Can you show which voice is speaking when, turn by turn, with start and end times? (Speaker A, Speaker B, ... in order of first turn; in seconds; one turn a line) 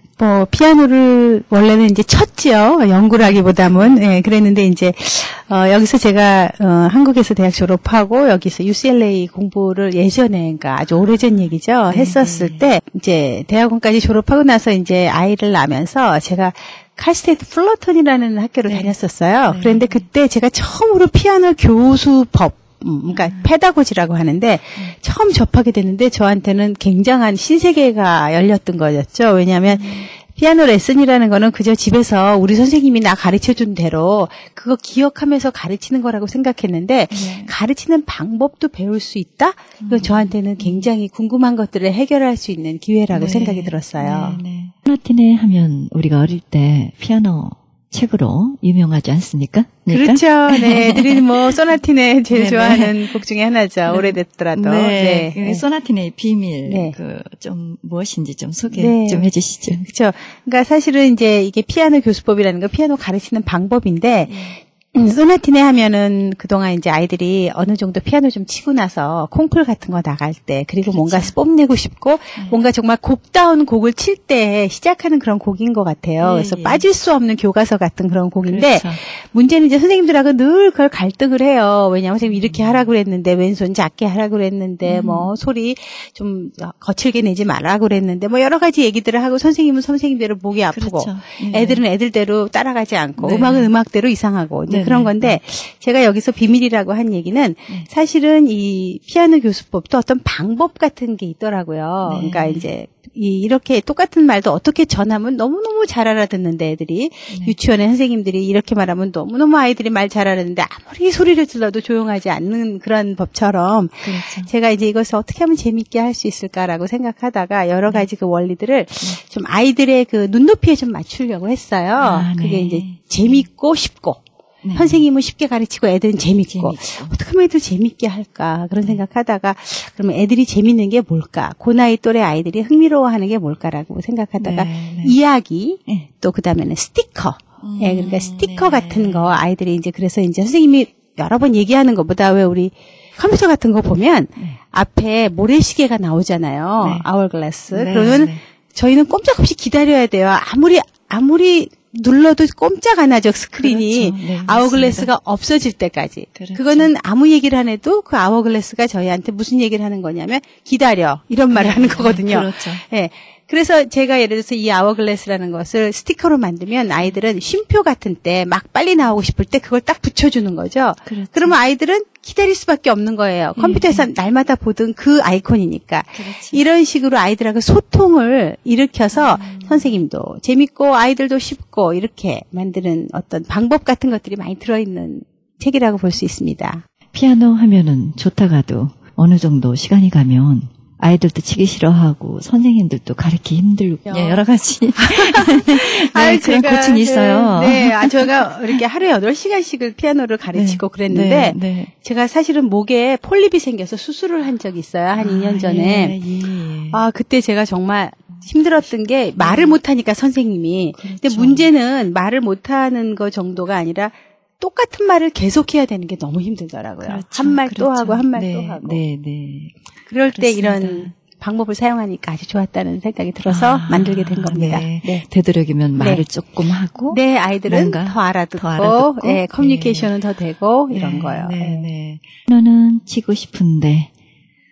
Speaker A: 0.2-44.4
Speaker B: 3.1-4.0
Speaker B: 11.9-12.7
Speaker B: 18.7-18.9
Speaker B: 19.5-20.1
Speaker B: 23.1-23.5
Speaker B: 29.7-30.1
Speaker B: 37.1-37.5
Speaker B: 39.8-40.9
Speaker B: 43.1-51.6
Speaker A: 49.9-55.6
Speaker B: 52.3-53.2
Speaker B: 53.9-59.9
Speaker A: 56.7-57.0
Speaker A: 58.7-124.2
Speaker B: 64.3-64.6
Speaker B: 70.8-71.3
Speaker B: 76.2-76.8
Speaker B: 78.4-79.0
Speaker B: 82.2-82.9
Speaker B: 84.8-85.3
Speaker B: 90.7-91.8
Speaker B: 93.2-93.7
Speaker B: 94.7-95.4
Speaker B: 102.0-102.7
Speaker B: 107.3-107.6
Speaker B: 114.0-114.5
Speaker B: 122.0-123.4
Speaker B: 124.6-125.0
Speaker A: 124.8-186.8
Speaker B: 126.5-127.1
Speaker B: 134.4-135.2
Speaker B: 137.6-139.4
Speaker B: 146.8-147.1
Speaker B: 147.7-148.4
Speaker B: 153.6-155.1
Speaker B: 156.4-156.9
Speaker B: 161.5-162.8
Speaker B: 171.1-171.6
Speaker B: 173.6-174.1
Speaker B: 176.1-176.6
Speaker B: 179.1-180.0
Speaker B: 187.1-198.8
Speaker A: 194.1-194.4
Speaker A: 195.0-206.2
Speaker B: 200.5-201.9
Speaker B: 205.1-207.0
Speaker A: 206.9-219.0
Speaker B: 209.4-209.8
Speaker B: 210.9-211.7
Speaker B: 217.0-221.1
Speaker A: 220.1-225.2
Speaker B: 223.5-230.1
Speaker A: 226.0-226.3
Speaker A: 227.1-231.9
Speaker B: 230.9-234.1